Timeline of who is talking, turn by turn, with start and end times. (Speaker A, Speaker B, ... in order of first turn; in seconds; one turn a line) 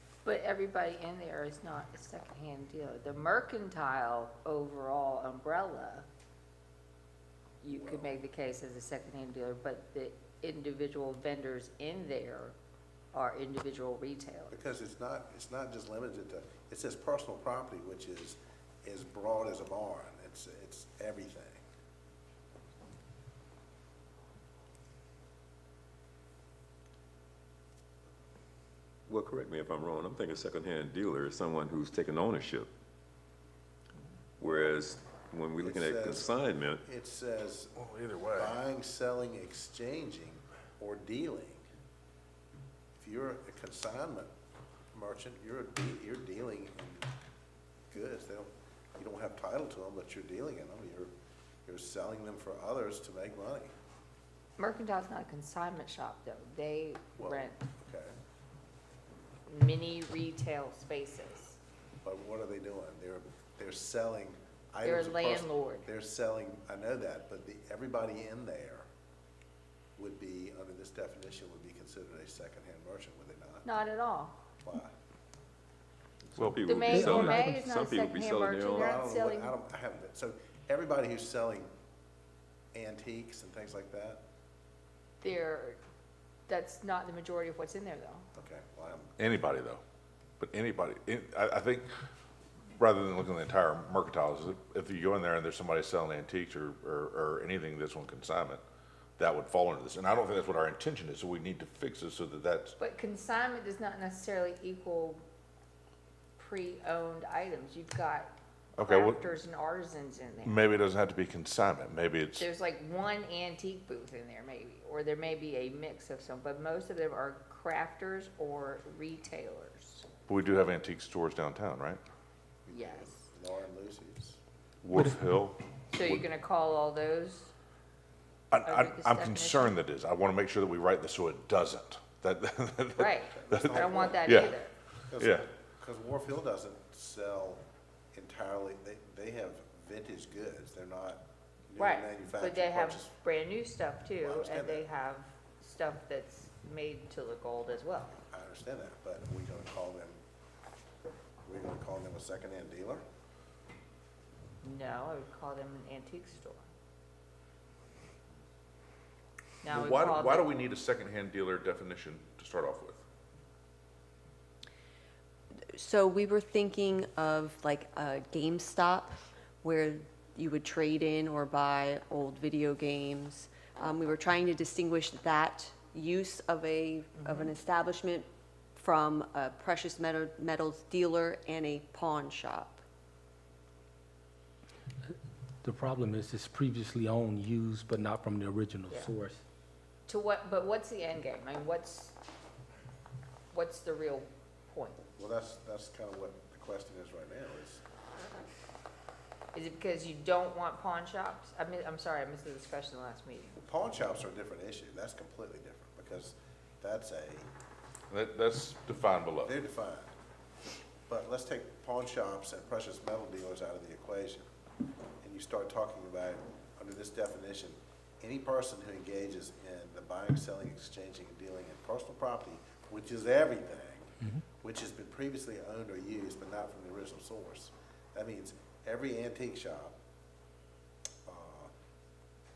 Speaker A: 0.2-6.1
Speaker A: 7.6-12.5
Speaker B: 7.7-8.1
Speaker A: 13.1-14.5
Speaker B: 14.5-21.6
Speaker C: 29.1-32.7
Speaker C: 34.4-36.8
Speaker B: 34.4-34.8
Speaker B: 35.6-36.3
Speaker B: 36.8-37.7
Speaker D: 37.8-38.6
Speaker B: 38.3-41.6
Speaker B: 43.0-44.3
Speaker B: 44.9-47.1
Speaker B: 47.9-51.1
Speaker B: 51.6-53.7
Speaker A: 54.6-57.6
Speaker B: 57.2-58.1
Speaker A: 59.5-61.6
Speaker B: 62.0-68.8
Speaker A: 64.8-65.9
Speaker B: 70.0-73.7
Speaker A: 73.6-74.4
Speaker B: 74.6-74.9
Speaker C: 76.3-78.9
Speaker A: 76.6-79.5
Speaker E: 76.9-77.6
Speaker B: 78.8-81.7
Speaker B: 82.7-84.2
Speaker A: 85.2-85.8
Speaker A: 86.5-88.2
Speaker B: 88.3-89.1
Speaker D: 89.2-89.8
Speaker D: 90.4-91.8
Speaker D: 92.8-98.6
Speaker D: 99.2-102.7
Speaker A: 102.8-105.2
Speaker A: 106.4-110.6
Speaker D: 108.8-109.2
Speaker D: 110.4-112.5
Speaker A: 112.3-120.1
Speaker D: 120.3-122.0
Speaker B: 122.7-124.4
Speaker A: 122.7-123.2
Speaker D: 124.8-126.2
Speaker A: 125.9-127.5
Speaker D: 128.5-134.6
Speaker A: 128.6-129.7
Speaker A: 133.0-134.7
Speaker B: 133.3-134.6
Speaker B: 135.1-137.6
Speaker D: 135.1-135.5
Speaker B: 138.1-143.1
Speaker A: 141.8-148.2
Speaker B: 144.2-144.9
Speaker B: 148.3-150.2
Speaker B: 151.4-153.0
Speaker A: 154.6-156.7
Speaker A: 159.6-160.5
Speaker D: 159.7-163.0
Speaker F: 165.7-182.8
Speaker E: 185.6-189.4
Speaker A: 190.1-192.2
Speaker A: 193.5-195.0
Speaker B: 195.2-197.8
Speaker A: 199.5-203.6
Speaker B: 203.6-207.5
Speaker D: 208.1-209.5
Speaker B: 209.4-210.1
Speaker B: 211.1-214.4
Speaker B: 215.2-230.0
Speaker B: 231.2-231.7